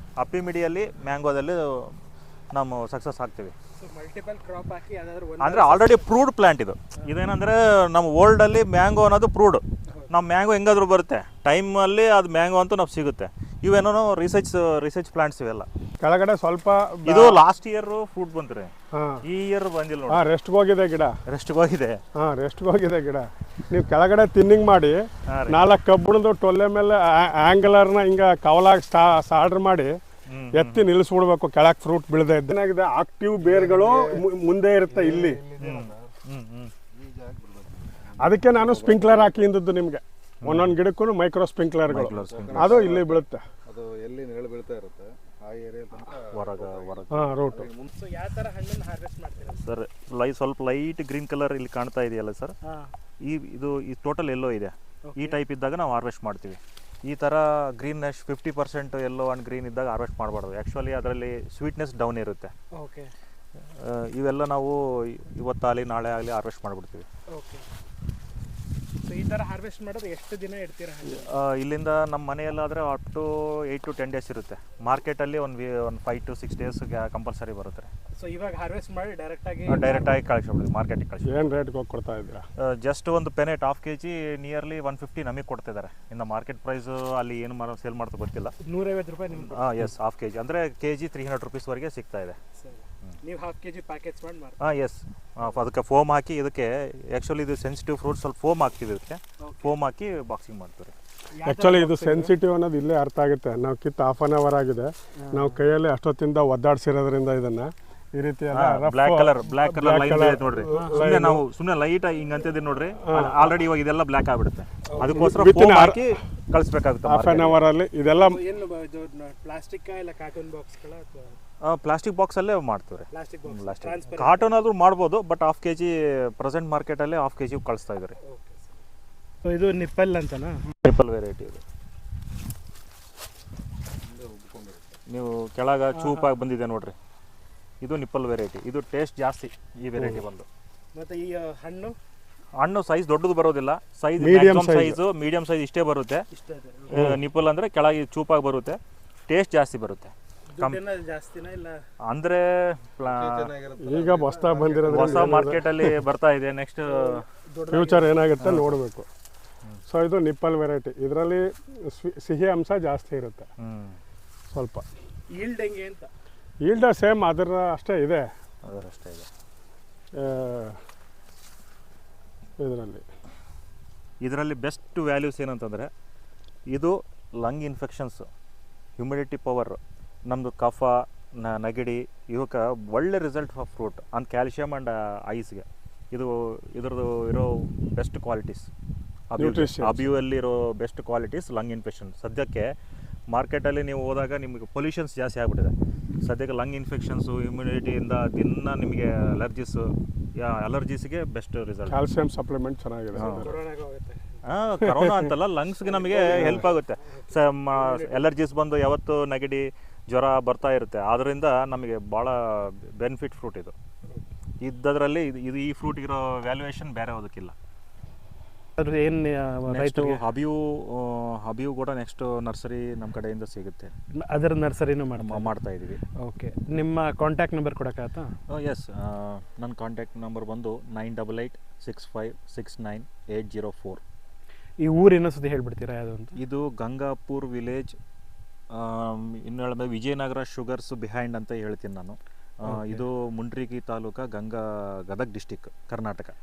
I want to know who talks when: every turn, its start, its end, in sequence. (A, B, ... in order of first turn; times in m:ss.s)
0:00.2-0:01.9 A
0:02.5-0:03.5 A
0:03.8-0:06.2 B
0:05.4-0:15.7 A
0:16.0-0:17.4 C
0:17.0-0:18.7 A
0:18.9-0:19.2 C
0:19.2-0:20.2 A
0:20.1-0:21.1 C
0:21.3-0:22.0 A
0:22.2-0:29.9 C
0:25.3-0:25.6 A
0:30.3-0:30.9 A
0:30.5-0:35.4 C
0:33.4-0:34.2 D
0:34.9-0:36.1 D
0:35.6-0:36.7 A
0:36.9-0:39.5 D
0:38.2-0:43.4 C
0:40.4-0:40.7 A
0:41.9-0:42.9 A
0:42.2-0:47.0 D
0:46.3-0:47.3 A
0:47.1-0:47.7 C
0:47.5-0:47.9 D
0:47.8-0:49.6 B
0:49.5-0:52.5 A
0:52.6-0:52.9 B
0:53.2-1:02.5 A
0:55.1-0:55.4 B
1:02.8-1:03.1 B
1:03.7-1:07.1 A
1:07.3-1:07.6 B
1:09.0-1:11.3 B
1:11.0-1:17.9 A
1:18.2-1:20.2 B
1:19.7-1:21.4 A
1:21.2-1:22.4 C
1:22.6-1:28.5 A
1:28.6-1:29.8 B
1:29.3-1:32.4 A
1:32.6-1:34.6 B
1:34.6-1:40.9 A
1:39.4-1:39.7 B
1:41.3-1:42.3 B
1:41.4-1:51.4 C
1:45.2-1:45.6 B
1:48.5-1:57.6 A
1:50.7-1:51.0 B
1:53.0-1:53.5 C
1:54.9-1:55.2 B
1:55.0-1:56.1 C
1:57.0-1:58.4 C
1:58.1-2:01.4 B
2:01.6-2:08.2 A
2:03.1-2:04.5 B
2:08.2-2:08.8 B
2:09.4-2:10.6 B
2:10.8-2:11.6 A
2:14.0-2:14.8 D
2:15.1-2:16.9 A
2:16.0-2:16.3 B
2:17.8-2:20.5 A
2:20.0-2:20.2 C
2:20.9-2:22.0 B
2:22.6-2:26.2 A
2:24.2-2:25.0 C
2:26.3-2:27.1 B
2:26.9-2:30.8 A
2:26.9-2:27.2 C
2:30.5-2:31.8 B
2:32.1-2:33.5 A
2:33.0-2:35.5 D
2:33.8-2:36.0 C
2:34.9-2:37.2 A
2:36.9-2:38.2 B
2:37.7-2:39.1 C
2:38.4-2:38.7 A
2:39.9-2:43.5 C
2:43.6-2:44.0 A
2:44.5-2:44.8 C
2:45.3-2:46.1 B
2:46.6-2:48.2 C
2:48.6-2:49.3 A
2:50.2-2:50.8 C
2:52.6-2:53.0 C
2:54.2-2:55.9 A
2:56.7-2:58.2 A
2:59.0-3:08.7 A
3:09.3-3:12.7 A
3:09.4-3:10.1 C
3:13.3-3:22.0 A
3:21.9-3:23.6 C
3:23.2-3:23.5 A
3:23.2-3:24.4 B
3:24.4-3:33.7 A
3:24.8-3:25.3 C
3:26.0-3:26.7 C
3:26.1-3:28.3 B
3:34.6-3:37.5 A
3:38.8-3:40.2 B
3:39.7-3:43.9 A
3:44.2-3:45.5 B
3:45.1-3:46.0 A
3:46.2-3:48.3 B
3:48.5-3:54.0 A
3:54.8-3:56.4 B
3:56.3-3:58.0 A
3:58.7-4:06.3 A
4:02.6-4:03.0 B